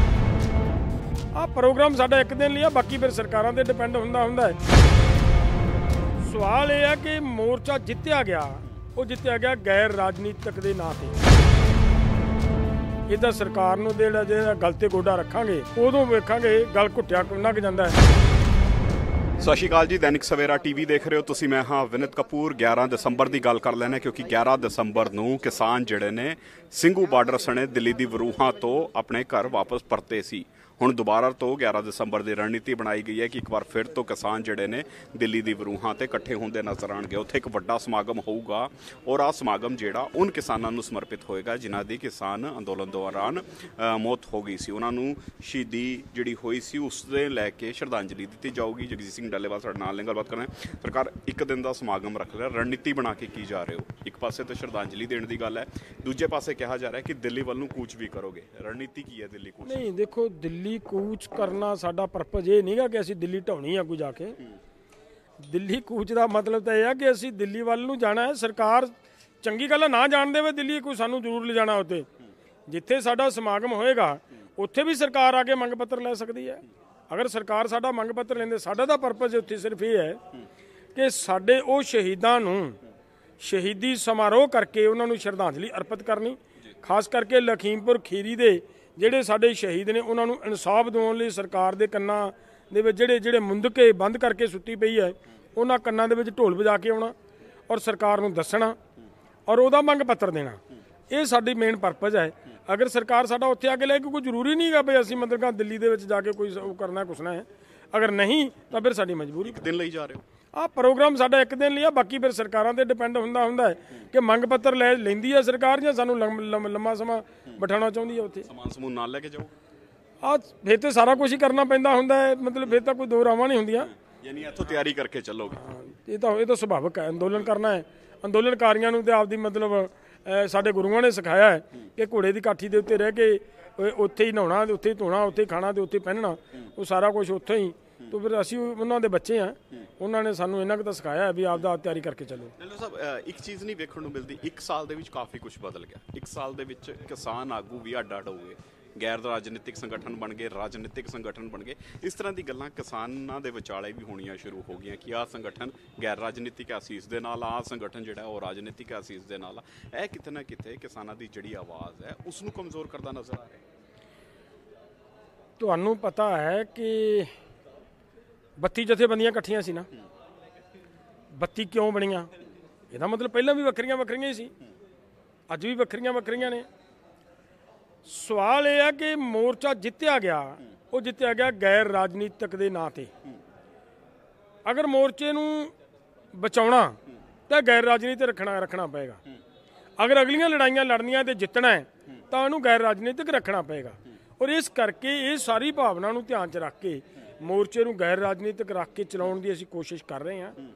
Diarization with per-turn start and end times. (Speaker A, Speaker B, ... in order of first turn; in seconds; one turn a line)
Speaker A: 1.3-4.6
Speaker A: 6.2-11.2
Speaker A: 13.1-18.0
Speaker B: 19.4-59.9
Speaker A: 59.6-64.4
Speaker A: 65.4-72.1
Speaker A: 72.7-80.2
Speaker A: 80.9-82.8
Speaker A: 83.4-97.1
Speaker A: 97.7-98.8
Speaker A: 99.5-100.6
Speaker A: 101.1-109.6
Speaker B: 109.4-110.2
Speaker A: 110.5-118.5
Speaker B: 118.5-119.5
Speaker A: 120.2-123.9
Speaker B: 124.1-125.7
Speaker A: 125.7-142.5
Speaker B: 142.6-163.6
Speaker A: 165.6-167.3
Speaker A: 168.6-169.9
Speaker A: 171.3-172.3
Speaker A: 172.9-174.5
Speaker A: 175.5-176.7
Speaker A: 178.0-183.1
Speaker A: 184.6-185.7
Speaker A: 186.3-189.2
Speaker A: 190.0-200.6